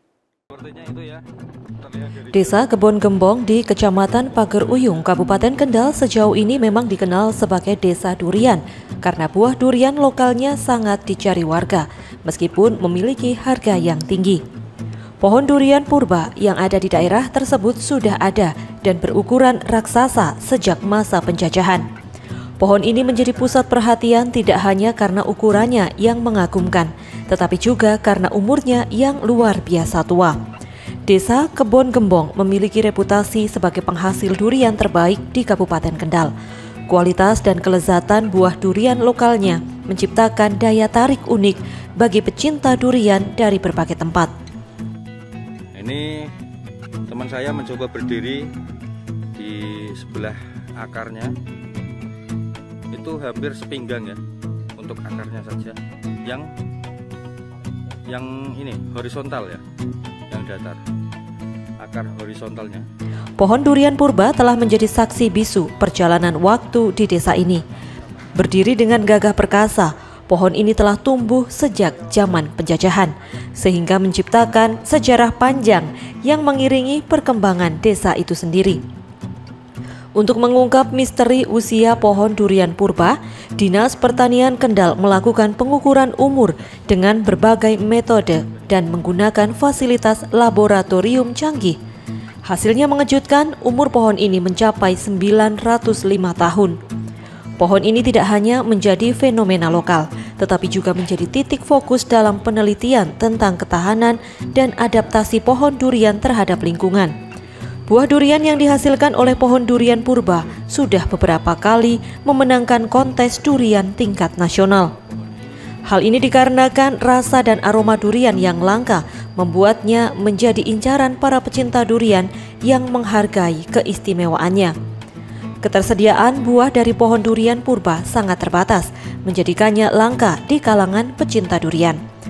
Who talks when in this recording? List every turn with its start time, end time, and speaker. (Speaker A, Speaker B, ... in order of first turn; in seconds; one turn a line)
Speaker A: 0.5-1.2
Speaker A: 1.8-2.6
Speaker B: 2.3-14.4
Speaker B: 15.2-21.8
Speaker B: 22.6-30.4
Speaker B: 31.1-36.3
Speaker B: 36.9-44.3
Speaker A: 45.7-46.3
Speaker A: 47.1-48.5
Speaker A: 49.4-51.3
Speaker A: 52.9-54.2
Speaker A: 54.8-56.5
Speaker A: 58.1-59.6
Speaker A: 60.3-60.8
Speaker A: 61.8-62.9
Speaker B: 63.4-67.6
Speaker B: 68.3-78.8
Speaker B: 80.2-91.8
Speaker B: 92.5-96.8
Speaker B: 97.6-107.1
Speaker B: 107.9-114.9
Speaker A: 115.1-115.4
Speaker B: 115.9-124.7
Speaker B: 125.6-132.0